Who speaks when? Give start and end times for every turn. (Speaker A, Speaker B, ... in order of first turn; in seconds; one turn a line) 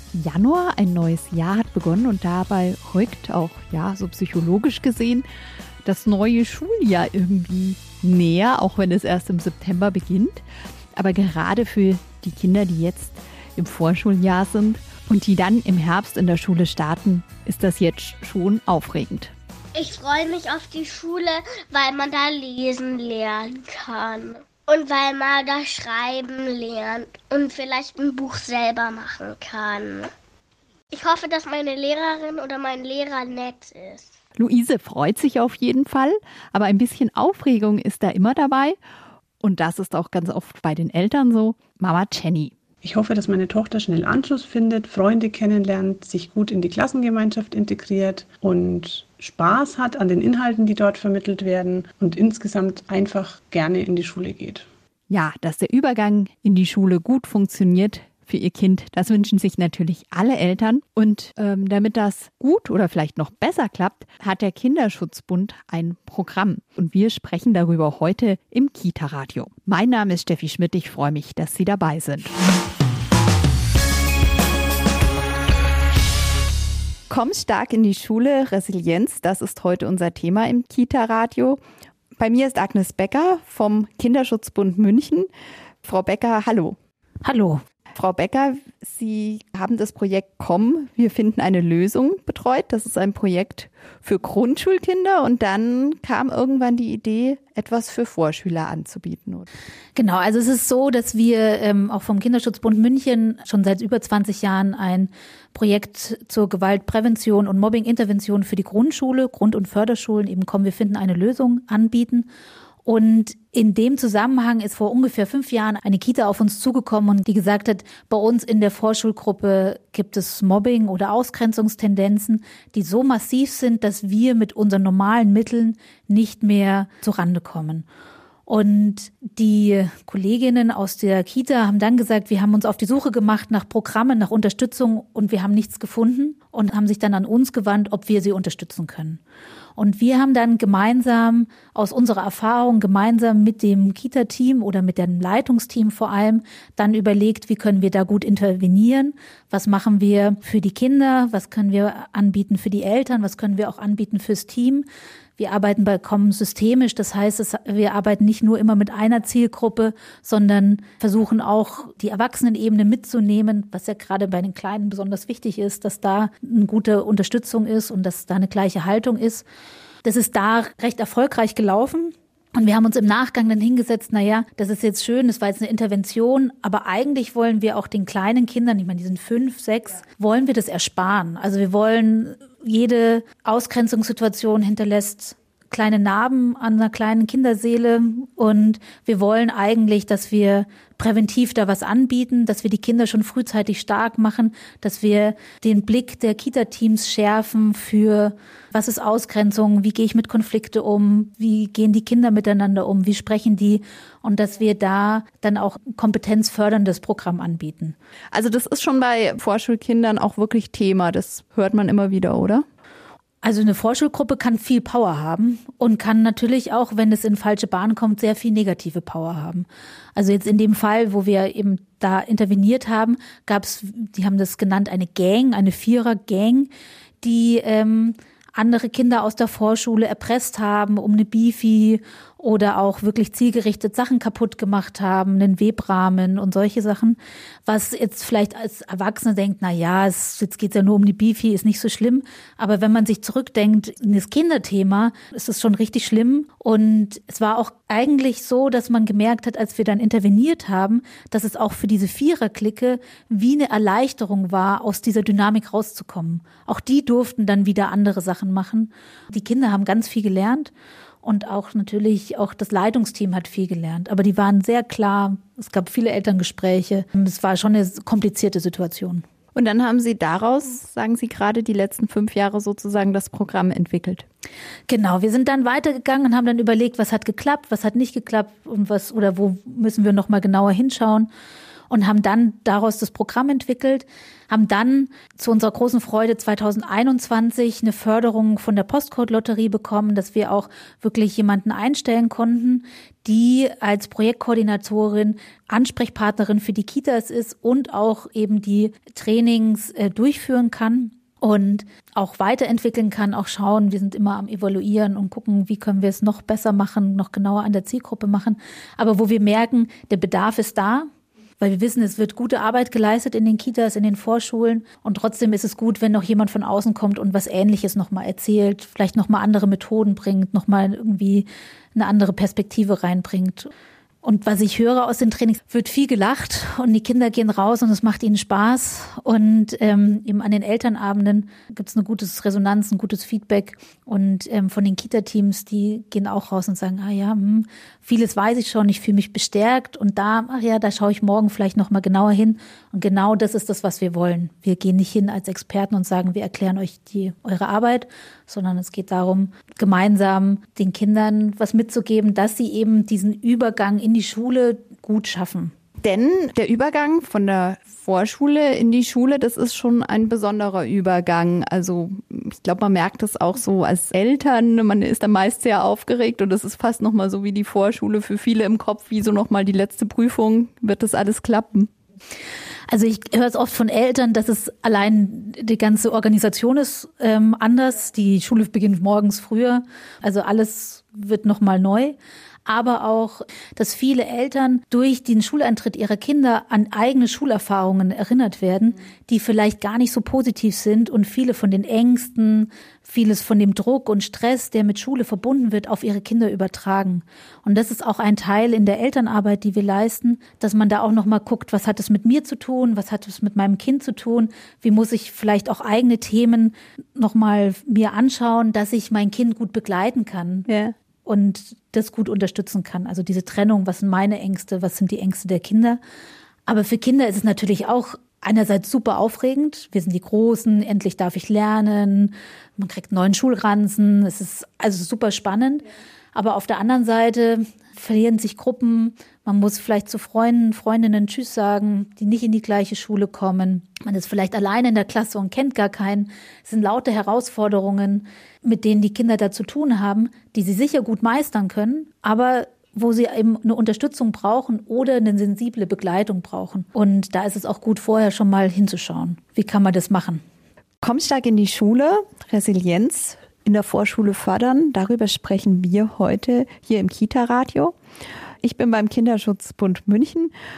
Speaker A: 0.1-5.3
Speaker A: 5.8-19.3
Speaker B: 19.8-30.1
Speaker B: 30.9-34.1
Speaker A: 34.4-38.8
Speaker A: 39.4-42.5
Speaker C: 42.8-54.7
Speaker A: 55.1-72.3
Speaker A: 77.1-81.6
Speaker A: 82.2-85.3
Speaker A: 85.8-86.8
Speaker D: 87.2-87.6
Speaker A: 87.9-99.5
Speaker D: 100.0-112.3
Speaker D: 112.9-127.9
Speaker D: 128.5-139.2
Speaker D: 139.8-154.9
Speaker D: 155.4-169.4
Speaker D: 170.0-207.9
Speaker A: 208.3-212.7
Speaker D: 213.4-226.7
Speaker D: 227.2-260.7
Speaker D: 261.2-269.2
Speaker A: 269.5-274.3
Speaker D: 274.9-281.3
Speaker D: 281.9-311.1
Speaker D: 311.6-323.7
Speaker D: 324.2-355.7
Speaker A: 356.0-371.9
Speaker D: 372.9-410.7
Speaker A: 410.7-410.9
Speaker D: 411.2-416.0
Speaker D: 416.7-450.4
Speaker A: 451.0-458.0
Speaker A: 458.6-460.5